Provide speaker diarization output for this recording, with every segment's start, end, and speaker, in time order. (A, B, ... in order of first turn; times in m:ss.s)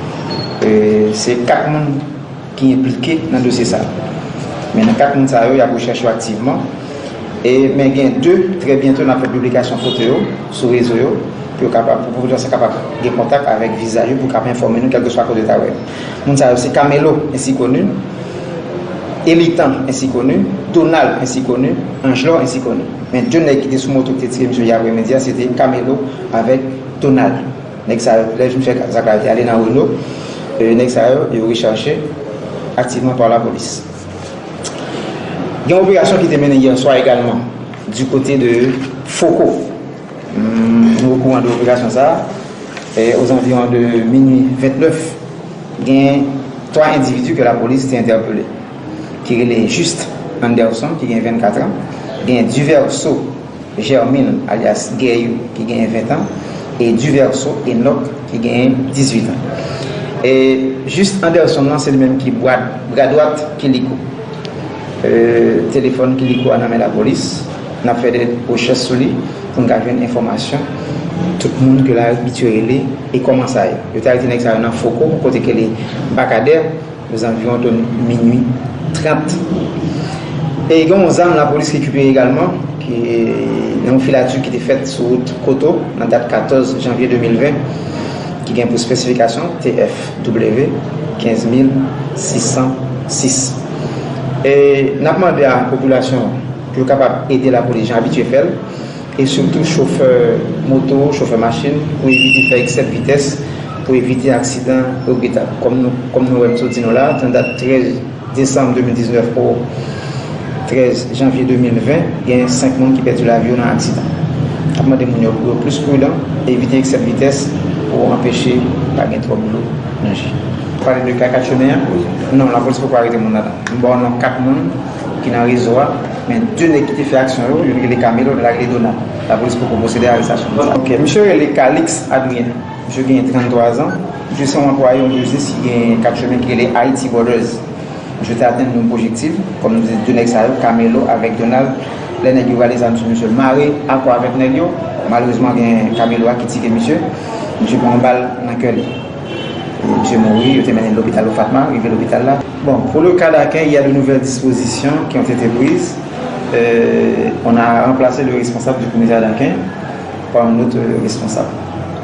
0:00.6-0:02.0 A
0:02.6-0:03.9 A
0:04.7-0:06.7 A
0:07.4-0:18.0 A
0:19.2-0:30.0 A
0:30.6-0:32.0 A
0:32.8-0:33.8 A
0:35.6-0:39.7 A
0:40.3-0:42.2 A
0:42.9-0:45.2 A
0:45.8-0:48.5 A
0:49.2-0:59.4 A
1:00.2-1:04.0 A
1:05.0-1:10.6 A
1:11.4-1:19.4 A
1:20.7-1:27.6 A
1:28.4-1:33.6 A
1:34.4-1:38.6 A
1:39.2-1:49.6 A
1:50.6-1:54.1 A
1:54.7-2:17.6 A
2:18.2-2:27.0 A
2:27.6-2:28.9 A
2:29.8-2:36.0 A
2:36.5-2:39.6 A
2:40.3-2:41.5 A